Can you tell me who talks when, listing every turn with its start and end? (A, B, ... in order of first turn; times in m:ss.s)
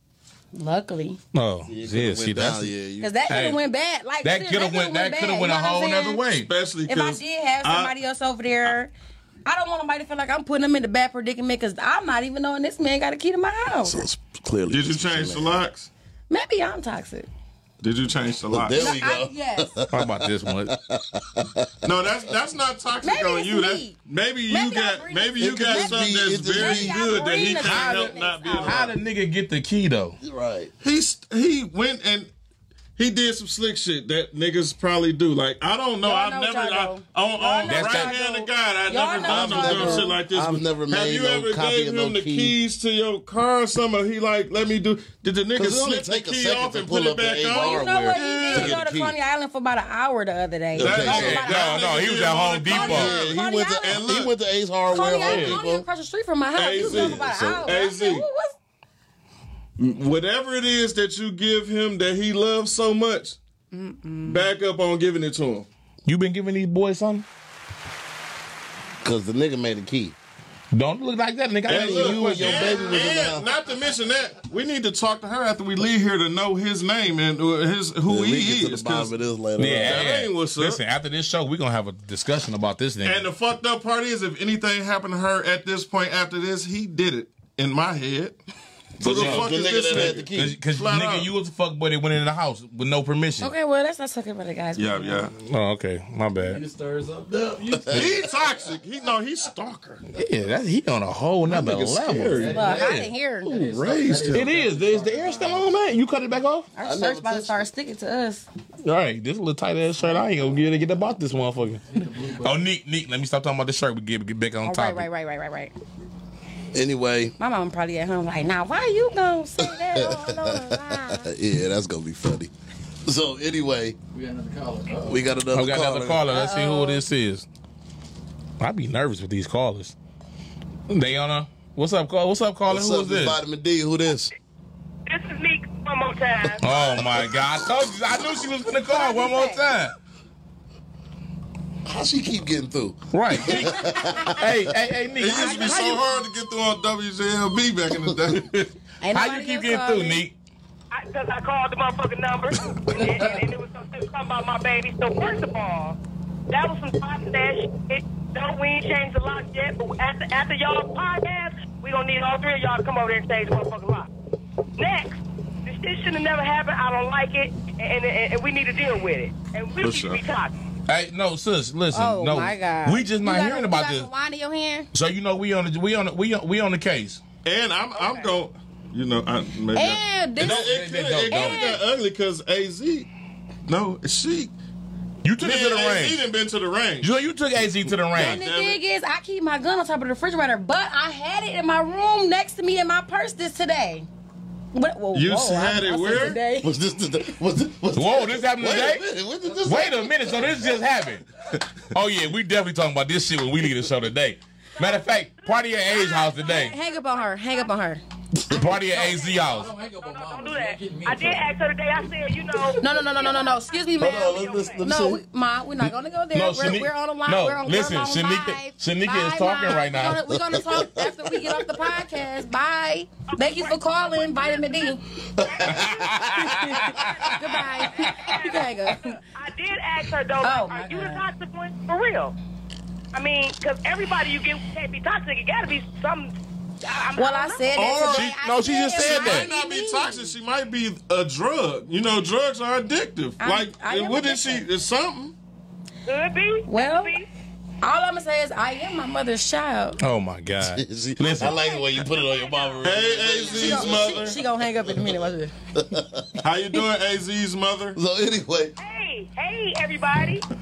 0:00.5-0:01.2 A
0:01.3-0:02.7 B
0:01.7-0:03.2 C
0:03.0-0:06.2 A
0:03.3-0:03.6 B
0:04.2-0:06.5 B
0:06.4-0:07.9 D
0:06.8-0:08.9 A
0:09.4-0:14.0 A
0:13.8-0:15.6 C
0:14.7-0:15.9 D
0:16.3-0:17.3 A
0:17.8-0:18.9 D
0:18.5-0:21.9 C
0:18.7-0:19.7 A
0:19.9-0:20.7 B
0:21.8-0:29.0 D
0:23.0-0:24.0 A
0:24.5-0:28.8 A
0:25.4-0:27.0 C
0:27.6-0:30.2 B
0:30.2-0:30.7 C
0:30.8-0:32.3 D
0:33.0-0:48.8 D
0:36.0-0:40.1 A
0:37.6-0:38.1 B
0:39.2-0:42.6 C
0:45.5-0:49.1 C
0:47.5-0:52.0 A
0:50.7-0:51.5 C
0:50.7-0:54.3 D
0:51.1-0:53.2 B
0:52.7-0:54.0 A
0:52.7-0:55.8 C
0:54.9-0:58.5 A
0:55.2-0:55.6 B
0:56.6-0:58.2 D
0:56.8-0:57.7 C
0:59.8-1:03.4 D
1:03.7-1:04.5 A
1:04.2-1:05.7 D
1:06.0-1:07.2 B
1:09.0-1:10.1 C
1:10.7-1:12.9 B
1:11.7-1:20.8 D
1:11.7-1:13.5 C
1:18.0-1:20.1 C
1:19.6-1:23.2 B
1:23.0-1:28.4 D
1:29.0-1:31.3 D
1:29.0-1:30.6 C
1:29.0-1:33.5 B
1:33.4-1:35.2 A
1:34.7-1:35.3 D
1:35.4-1:36.6 B
1:36.3-1:38.0 E
1:37.7-1:38.2 C
1:37.9-1:40.0 D
1:40.1-1:43.1 B
1:41.5-1:42.8 D
1:42.0-1:45.7 E
1:42.5-1:43.6 A
1:43.6-1:46.7 B
1:43.8-1:44.4 D
1:46.7-1:48.5 A
1:46.8-1:47.7 C
1:48.8-1:51.8 B
1:51.9-1:52.7 E
1:52.4-1:55.1 B
1:54.6-1:55.7 A
1:56.7-1:57.3 C
1:57.4-2:01.3 A
1:59.7-2:02.5 C
2:03.0-2:04.0 C
2:04.1-2:05.3 E
2:05.0-2:06.2 C
2:05.5-2:07.5 B
2:06.3-2:07.0 A
2:08.6-2:09.9 B
2:10.9-2:13.4 B
2:12.7-2:14.3 C
2:15.1-2:16.6 F
2:16.6-2:19.9 B
2:18.8-2:19.6 A
2:21.8-2:24.7 C
2:23.1-2:26.0 B
2:25.2-2:28.7 D
2:25.3-2:26.0 A
2:29.0-2:30.2 A
2:29.1-2:30.4 B
2:30.9-2:36.0 F
2:36.5-2:44.1 F
2:44.8-2:50.5 F
2:49.8-2:50.2 D
2:50.9-2:54.1 B
2:51.9-2:54.9 A
2:54.9-2:57.2 B
2:57.4-3:03.1 D
2:57.9-2:58.3 F
2:59.7-3:01.8 A
3:00.4-3:01.7 B
3:03.7-3:04.5 D
3:05.2-3:06.2 B
3:05.4-3:07.2 D
3:07.0-3:08.4 B
3:08.1-3:08.8 D
3:08.1-3:14.1 A
3:14.7-3:16.7 A
3:15.1-3:16.4 D
3:16.6-3:20.5 C
3:17.9-3:19.0 B
3:19.6-3:21.2 B
3:21.9-3:26.8 B
3:24.8-3:27.7 F
3:26.4-3:28.0 A
3:28.5-3:29.8 B
3:28.8-3:31.5 E
3:30.0-3:34.8 F
3:32.8-3:45.0 A
3:34.0-3:35.2 C
3:36.3-3:40.2 B
3:40.4-3:41.1 C
3:43.4-3:52.4 F
3:45.4-3:46.3 C
3:45.6-3:48.3 B
3:46.3-3:49.2 A
3:50.4-3:51.3 A
3:53.1-3:56.3 F
3:56.8-3:57.7 F
3:57.2-4:00.3 A
3:57.7-3:58.3 D
3:58.1-3:59.5 B
3:58.9-4:05.3 D
4:03.4-4:04.6 A
4:06.0-4:07.3 F
4:06.7-4:07.2 A
4:07.8-4:10.0 A
4:10.0-4:11.6 B
4:10.6-4:14.4 C
4:12.0-4:12.6 A
4:12.8-4:14.4 D
4:13.1-4:15.5 A
4:15.8-4:16.2 C
4:16.4-4:18.0 D
4:18.0-4:18.7 C
4:18.8-4:20.4 F